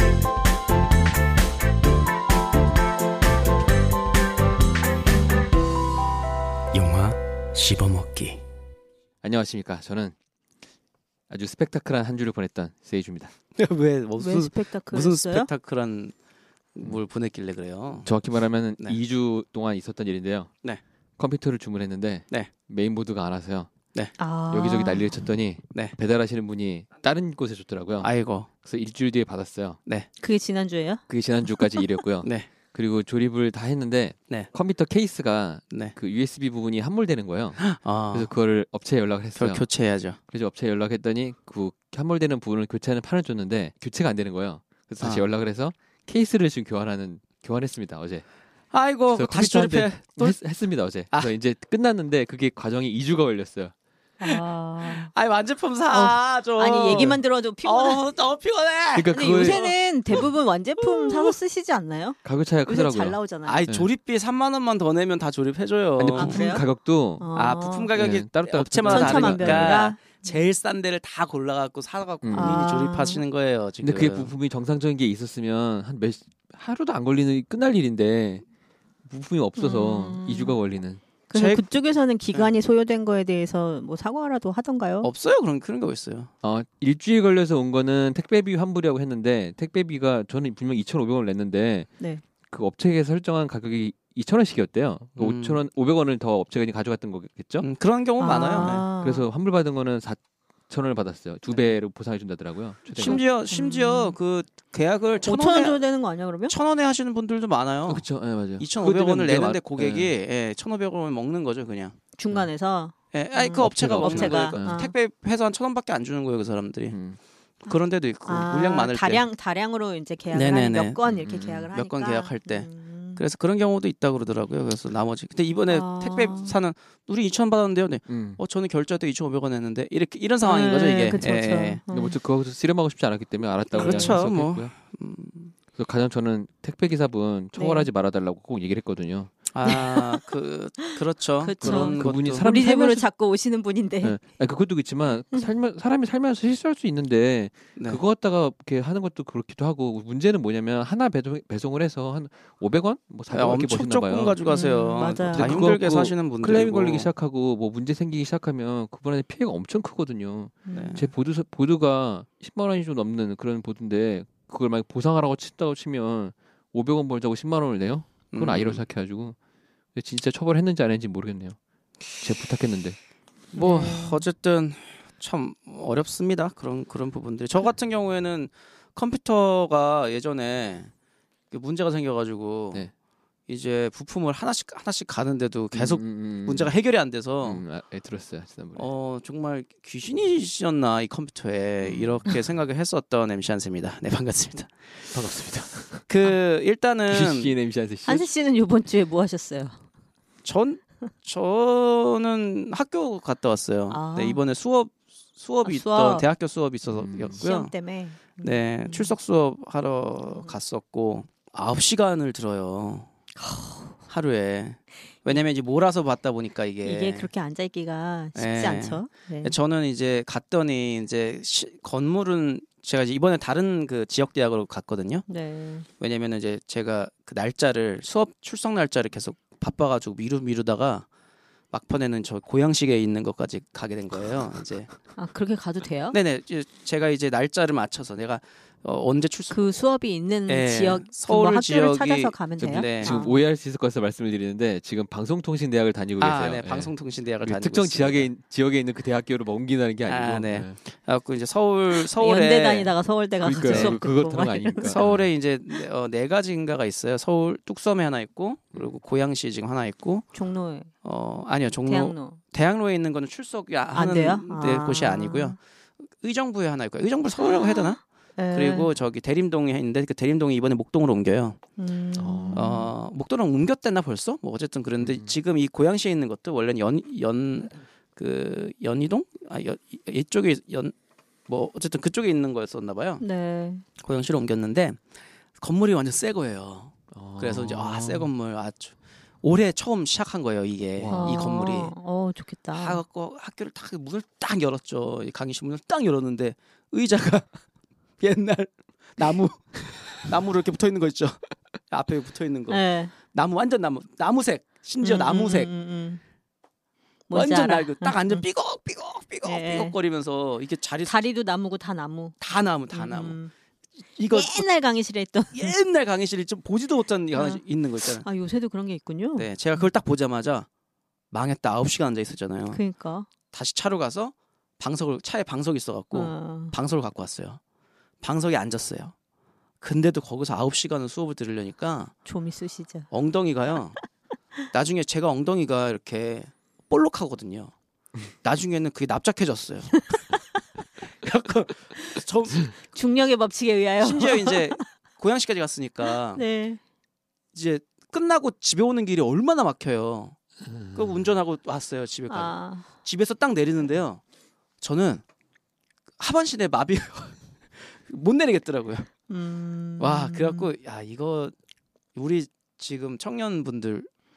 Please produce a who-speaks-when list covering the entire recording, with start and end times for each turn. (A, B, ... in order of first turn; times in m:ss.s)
0:06.7-0:08.4 A
0:09.2-0:10.1 B
0:11.3-0:13.3 B
0:13.6-0:16.2 A
0:14.2-0:15.5 C
0:16.8-0:18.1 A
0:18.0-0:20.5 B
0:21.2-0:23.7 B
0:24.2-0:25.1 C
0:24.5-0:29.8 B
0:28.0-0:28.5 A
0:30.2-0:31.0 C
0:31.1-0:39.7 B
0:32.2-0:32.5 A
0:37.6-0:38.3 A
0:39.4-0:40.2 A
0:40.3-0:48.2 B
0:45.0-0:45.3 A
0:48.7-0:50.4 A
0:49.1-0:53.7 B
0:54.2-0:55.1 C
0:54.2-1:00.3 A
0:55.9-0:58.1 C
0:59.0-0:59.6 B
0:59.1-1:03.7 C
1:00.8-1:01.4 A
1:02.2-1:03.9 B
1:03.4-1:06.4 A
1:06.0-1:07.4 B
1:06.2-1:06.7 C
1:07.2-1:07.9 C
1:07.3-1:14.3 A
1:07.9-1:09.9 B
1:08.9-1:10.4 C
1:12.2-1:12.7 B
1:12.3-1:13.2 C
1:13.8-1:18.4 B
1:19.1-1:21.0 B
1:19.6-1:20.6 C
1:21.3-1:25.1 C
1:21.3-1:21.7 A
1:25.0-1:26.3 A
1:26.4-1:31.9 B
1:32.5-1:37.7 B
1:35.2-1:35.6 A
1:37.6-1:38.9 A
1:38.2-1:39.3 C
1:38.4-1:43.2 B
1:43.0-1:45.8 A
1:43.0-1:44.2 C
1:45.2-1:46.5 C
1:46.5-1:52.0 A
1:47.9-1:50.1 B
1:52.2-1:54.9 C
1:53.1-1:57.0 A
1:53.6-1:54.8 B
1:56.9-1:57.2 B
1:57.6-1:59.3 A
1:57.6-2:03.2 C
2:00.3-2:01.0 A
2:01.1-2:01.7 B
2:01.7-2:11.8 A
2:05.7-2:06.6 C
2:08.1-2:08.4 B
2:10.4-2:12.2 C
2:11.9-2:14.7 B
2:13.7-2:14.2 C
2:13.8-2:15.5 A
2:15.8-2:19.4 B
2:17.6-2:17.9 C
2:19.5-2:22.5 A
2:19.6-2:20.2 C
2:20.8-2:24.2 C
2:21.6-2:23.1 B
2:24.0-2:49.4 B
2:27.8-2:28.0 A
2:33.3-2:37.1 A
2:34.4-2:35.7 C
2:40.7-2:41.0 C
2:40.7-2:41.1 A
2:48.3-2:48.8 A
2:50.0-2:51.6 B
2:52.1-2:53.0 B
2:53.5-2:54.2 C
2:53.6-3:00.9 A
3:01.5-3:02.9 A
3:03.5-3:07.6 A
3:05.7-3:06.8 B
3:07.4-3:08.9 B
3:08.8-3:15.1 A
3:11.8-3:12.3 B
3:15.1-3:16.3 B
3:16.1-3:17.5 A
3:17.1-3:18.3 B
3:18.1-3:19.8 C
3:20.4-3:27.8 A
3:23.9-3:24.4 C
3:25.6-3:26.3 C
3:26.9-3:27.4 B
3:27.4-3:29.1 C
3:28.4-3:33.1 A
3:30.2-3:30.6 C
3:33.4-3:34.0 C
3:34.1-3:37.3 A
3:36.8-3:39.6 C
3:38.4-3:45.3 A
3:45.3-3:45.9 C
3:46.0-3:51.1 A
3:51.7-3:55.0 A
3:55.2-3:56.2 C
3:56.1-3:59.8 A
3:59.5-4:03.4 C
4:00.5-4:03.2 A
4:03.0-4:10.8 B
4:06.2-4:08.3 A
4:10.1-4:13.0 A
4:11.9-4:15.0 C
4:13.4-4:15.3 B
4:13.7-4:14.0 A
4:14.8-4:20.3 A
4:20.3-4:20.9 C
4:21.0-4:28.0 A
4:21.8-4:22.4 C
4:23.9-4:25.6 C
4:27.4-4:28.9 C
4:28.5-4:31.6 A
4:31.8-4:32.8 C
4:32.2-4:32.9 B
4:32.5-4:40.9 A
4:35.0-4:35.3 B
4:41.5-4:43.2 A
4:43.2-4:43.8 C
4:44.0-4:45.0 A
4:45.6-4:51.9 A
4:47.1-4:48.3 B
4:51.0-4:51.4 B
4:51.1-4:53.0 C
4:52.7-4:57.6 A
4:58.2-5:05.7 A
5:02.7-5:03.1 C
5:05.0-5:06.2 C
5:07.3-5:08.5 C
5:07.3-5:11.3 A
5:09.4-5:10.0 C
5:11.0-5:13.5 C
5:12.4-5:13.4 A
5:14.2-5:14.7 A
5:14.3-5:15.8 C
5:15.5-5:18.3 A
5:17.3-5:19.9 C
5:19.4-5:20.7 A
5:21.3-5:22.8 A
5:22.7-5:23.3 C
5:23.5-5:27.6 A
5:26.1-5:26.8 C
5:28.2-5:29.1 A
5:29.8-5:32.1 A
5:32.2-5:33.1 C
5:33.1-5:34.0 A
5:34.7-5:37.7 A
5:38.4-5:40.1 A
5:39.9-5:40.6 C
5:41.1-5:42.7 A
5:42.9-5:44.8 C
5:44.0-5:46.4 A
5:46.0-5:46.8 C
5:47.5-5:50.4 A
5:50.8-5:51.1 B
5:50.9-5:54.2 A
5:52.3-5:52.9 C
5:54.8-5:55.2 A
5:56.2-5:59.1 A
5:59.3-6:00.7 C
6:00.0-6:01.6 A
6:02.2-6:04.1 A